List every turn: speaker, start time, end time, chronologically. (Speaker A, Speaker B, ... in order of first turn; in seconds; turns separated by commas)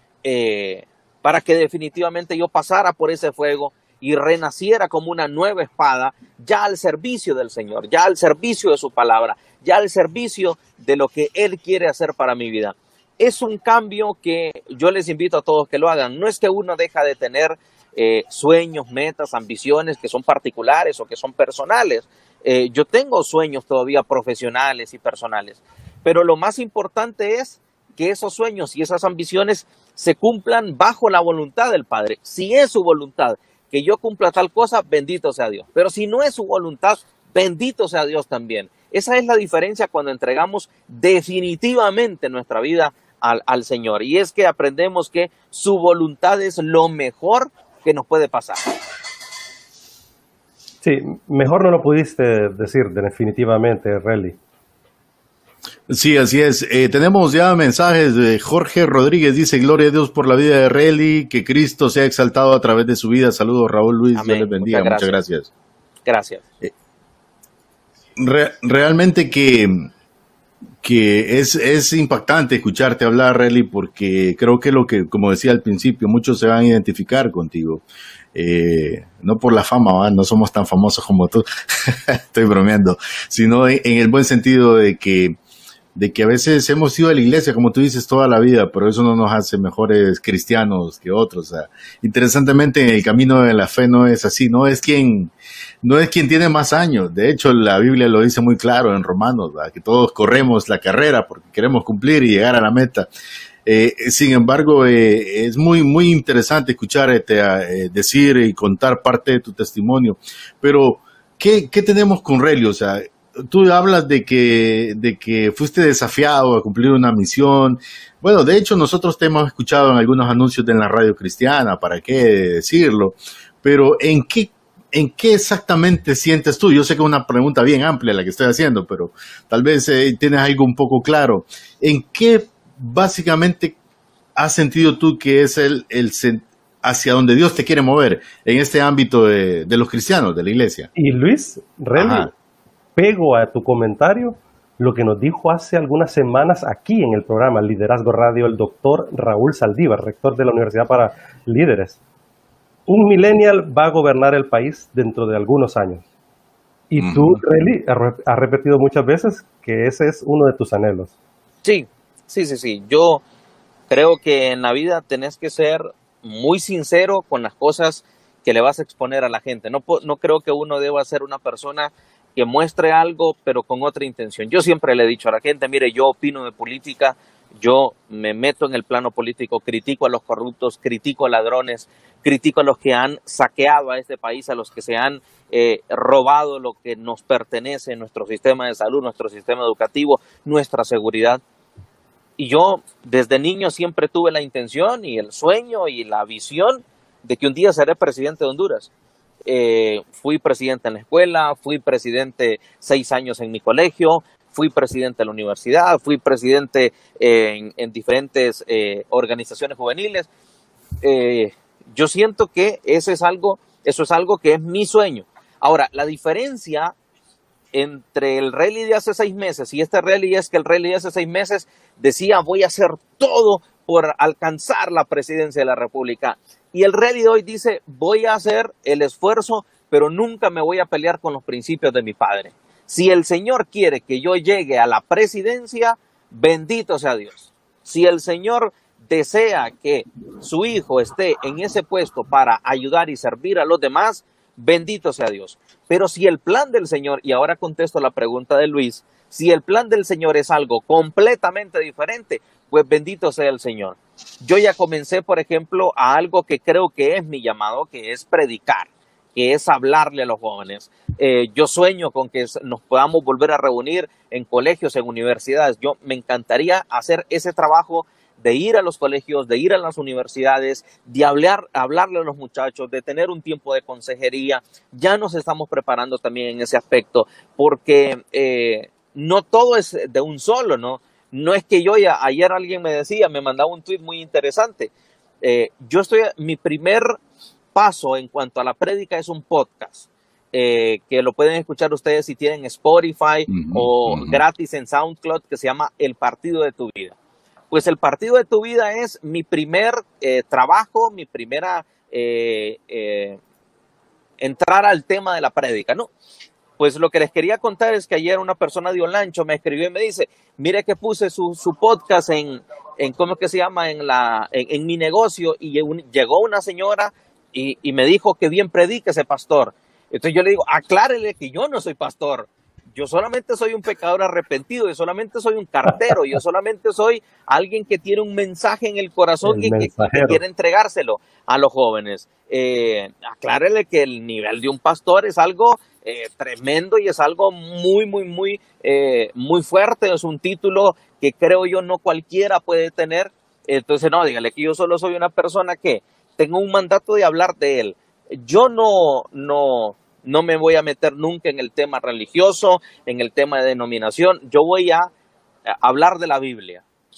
Speaker A: 0.2-48.6, Speaker B: 50.8-54.4, Speaker C: 55.9-65.5, Speaker A: 64.2-65.2, Speaker A: 66.1-66.4, Speaker C: 68.2-69.9, Speaker C: 70.8-77.8, Speaker C: 78.3-85.4, Speaker C: 86.0-103.1, Speaker C: 103.7-133.8, Speaker C: 134.4-140.9, Speaker B: 140.9-142.3, Speaker C: 141.9-142.3, Speaker B: 143.0-152.0, Speaker B: 152.9-156.0, Speaker B: 156.9-161.1, Speaker C: 157.0-157.4, Speaker A: 161.6-163.2, Speaker A: 163.9-191.4, Speaker A: 192.4-198.9, Speaker A: 199.5-210.3, Speaker A: 211.0-216.9, Speaker A: 217.7-284.9, Speaker A: 285.4-287.2, Speaker A: 287.7-297.2, Speaker C: 293.5-294.4, Speaker A: 297.7-303.4, Speaker A: 304.4-306.1, Speaker A: 306.8-355.1, Speaker B: 329.4-330.4, Speaker A: 355.7-356.8